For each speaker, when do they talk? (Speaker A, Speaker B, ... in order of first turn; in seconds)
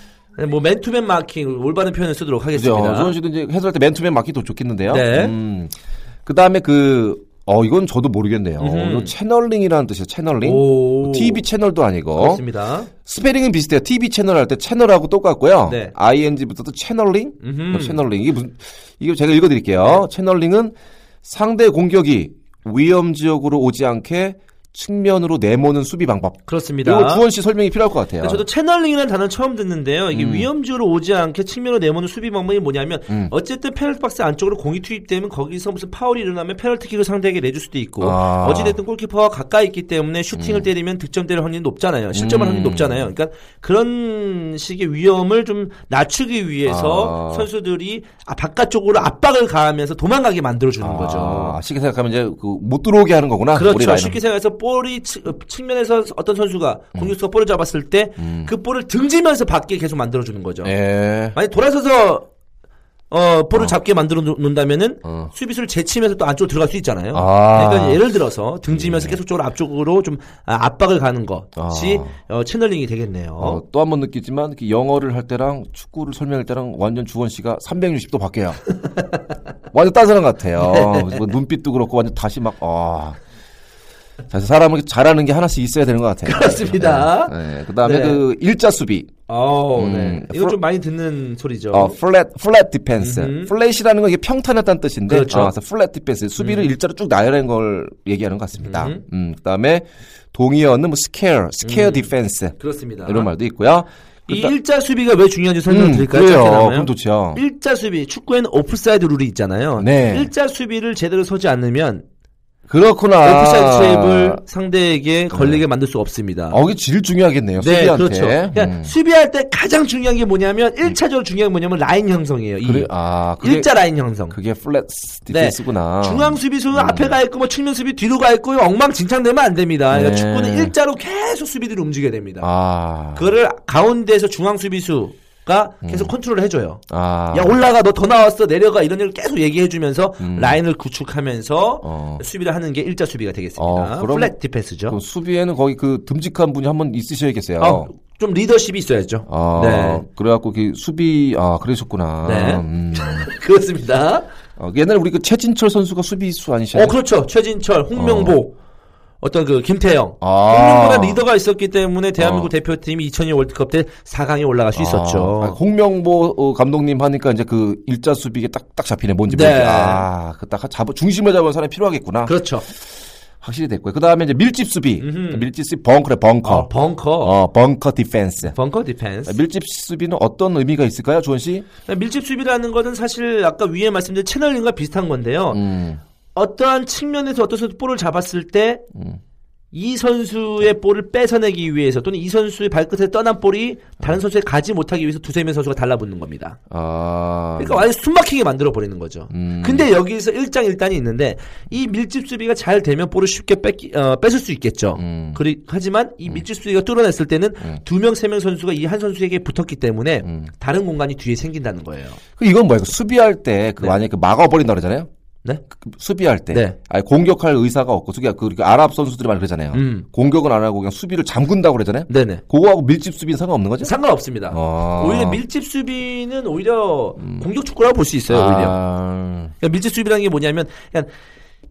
Speaker A: 0.4-3.1, 4.9-5.3, 8.6-9.1, 10.4-11.4, 12.2-12.9, 15.7-15.9, 17.4-18.0, 26.5-27.2, 28.2-51.6, 53.5-60.7, 61.3-62.3, 63.1-73.6, 78.8-79.2, 80.6-81.3, 86.2-88.2, 89.3-92.0, 93.0-93.5, 95.1-95.5, 96.4-96.7, 98.6-99.0, 101.6-103.3, 104.3-112.0, 113.2-116.6, 117.6-124.4, 125.3-132.5, 133.1-145.0, 147.6-150.1, 152.2-154.3, 156.7-158.6, 159.2-165.6, 169.3-170.1, 172.2-172.7, 175.0-175.5, 176.4-177.3, 178.4-179.4, 181.9-185.7, 186.3-188.8, 189.7-196.6, 197.6-212.2, 216.5-216.8, 219.7-220.1, 222.1-222.4, 223.8-228.8, 229.6-231.1
Speaker B: 2.5-5.7, 6.3-12.4, 13.1-28.4, 30.1-30.5, 38.0-38.8, 40.4-40.7, 42.1-43.1, 46.7-47.5, 50.8-54.2, 58.2-58.5, 60.6-61.4, 65.0-65.3, 67.1-68.1, 68.7-69.2, 71.6-72.1, 73.4-78.6, 79.7-83.2, 84.3-89.1, 89.8-90.6, 91.7-104.5, 105.7-107.4, 109.8-110.3, 112.7-114.4, 115.3-115.6, 116.5-118.9, 122.6-123.7, 124.3-127.2, 129.9-130.8, 132.4-133.4, 135.8-136.1, 136.9-137.6, 140.2-140.6, 141.8-142.2, 143.6-144.3, 144.9-147.9, 149.3-153.3, 154.6-157.0, 157.9-158.4, 160.2-161.2, 162.2-162.5, 164.8-172.8, 173.4-176.7, 177.2-178.6, 179.2-181.7, 185.5-186.0, 188.9-189.2, 196.7-197.9, 199.3-199.9, 205.0-205.4, 210.2-210.5, 212.4-215.1, 215.8-224.0, 224.5-225.4, 227.2-227.5, 228.3-229.5